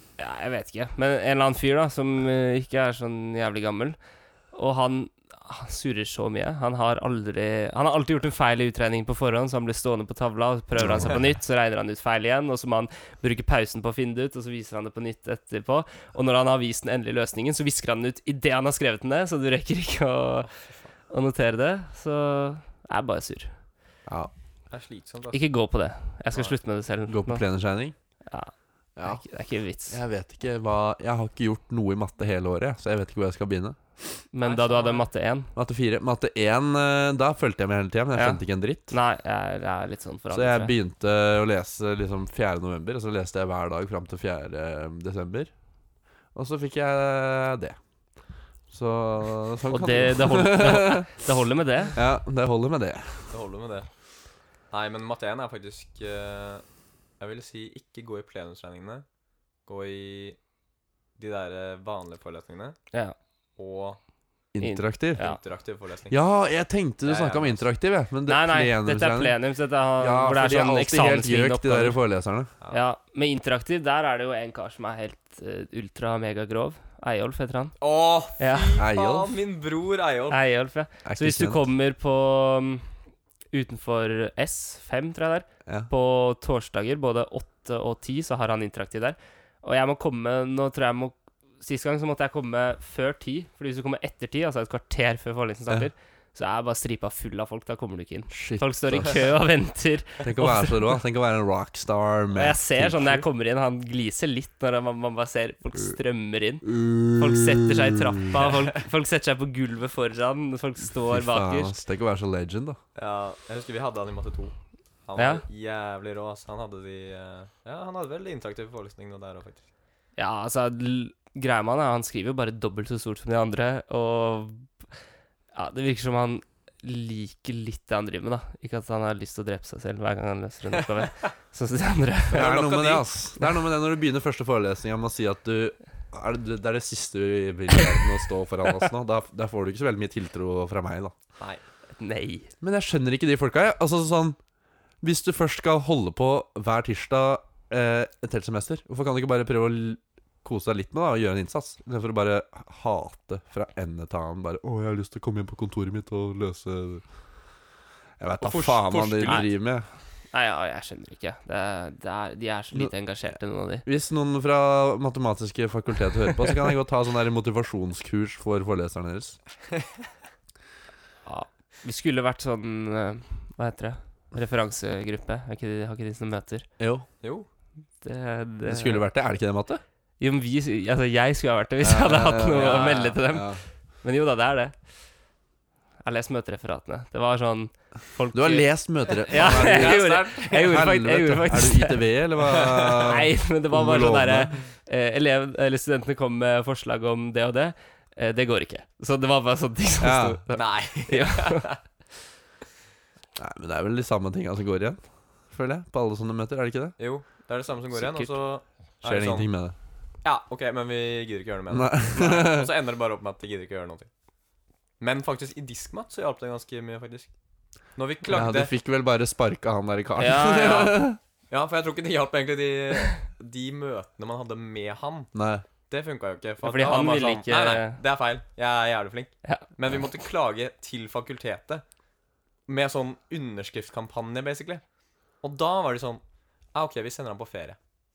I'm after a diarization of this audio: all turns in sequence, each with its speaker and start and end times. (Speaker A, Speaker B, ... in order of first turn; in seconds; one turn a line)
Speaker A: 0.2-4.0
Speaker A: 4.5-20.5
Speaker B: 10.8-11.2
Speaker C: 20.4-20.9
Speaker A: 21.1-23.5
Speaker B: 24.1-24.3
Speaker C: 24.7-25.4
Speaker A: 25.3-27.5
Speaker B: 27.1-27.9
Speaker A: 28.3-28.5
Speaker B: 29.0-29.2
Speaker A: 29.0-30.0
Speaker B: 29.9-33.8
Speaker A: 34.3-35.5
Speaker C: 34.4-35.1
Speaker B: 35.6-38.9
Speaker A: 38.2-40.8
Speaker B: 40.3-45.5
Speaker B: 46.4-47.8
Speaker B: 48.7-51.1
Speaker A: 49.7-52.0
Speaker B: 52.0-53.3
Speaker C: 53.3-53.9
Speaker C: 54.7-56.6
Speaker C: 57.2-59.0
Speaker C: 59.7-60.4
Speaker C: 61.2-62.8
Speaker C: 63.6-64.0
Speaker B: 64.5-65.2
Speaker A: 64.6-65.4
Speaker C: 65.2-66.2
Speaker B: 66.1-69.4
Speaker C: 67.0-67.7
Speaker A: 68.3-72.0
Speaker B: 70.0-72.5
Speaker A: 72.7-77.8
Speaker C: 77.8-80.4
Speaker A: 78.4-78.7
Speaker B: 78.8-79.4
Speaker A: 80.3-82.9
Speaker B: 81.0-81.7
Speaker A: 83.5-100.9
Speaker B: 98.3-99.2
Speaker B: 100.2-103.2
Speaker A: 102.3-111.8
Speaker B: 106.6-108.4
Speaker B: 111.1-112.8
Speaker C: 113.0-114.5
Speaker C: 115.1-119.6
Speaker A: 115.2-115.4
Speaker A: 120.2-124.7
Speaker A: 125.5-132.5
Speaker C: 132.3-133.1
Speaker B: 132.3-141.1
Speaker A: 142.0-142.5
Speaker B: 142.6-144.4
Speaker B: 145.0-157.0
Speaker B: 158.2-159.9
Speaker C: 158.4-159.5
Speaker A: 159.3-159.5
Speaker A: 160.3-163.8
Speaker B: 163.8-169.4
Speaker A: 171.3-176.7
Speaker B: 176.8-177.1
Speaker C: 177.2-177.5
Speaker A: 178.0-179.0
Speaker B: 178.7-179.8
Speaker A: 180.2-184.7
Speaker B: 181.8-183.6
Speaker C: 182.5-183.2
Speaker A: 186.0-192.0
Speaker B: 188.3-194.5
Speaker C: 189.3-190.7
Speaker C: 192.5-193.2
Speaker A: 193.0-201.7
Speaker B: 200.0-200.4
Speaker C: 200.5-201.8
Speaker B: 203.4-206.9
Speaker C: 207.0-209.5
Speaker A: 208.0-208.3
Speaker B: 209.0-209.8
Speaker C: 210.2-214.1
Speaker B: 211.7-212.7
Speaker C: 215.0-217.3
Speaker C: 218.0-218.7
Speaker B: 218.3-221.2
Speaker A: 220.2-221.0
Speaker C: 220.5-221.0
Speaker C: 221.5-225.3
Speaker B: 225.3-225.7
Speaker C: 225.9-231.8
Speaker A: 226.6-228.0
Speaker C: 232.7-234.8
Speaker C: 235.4-236.2
Speaker C: 236.7-237.8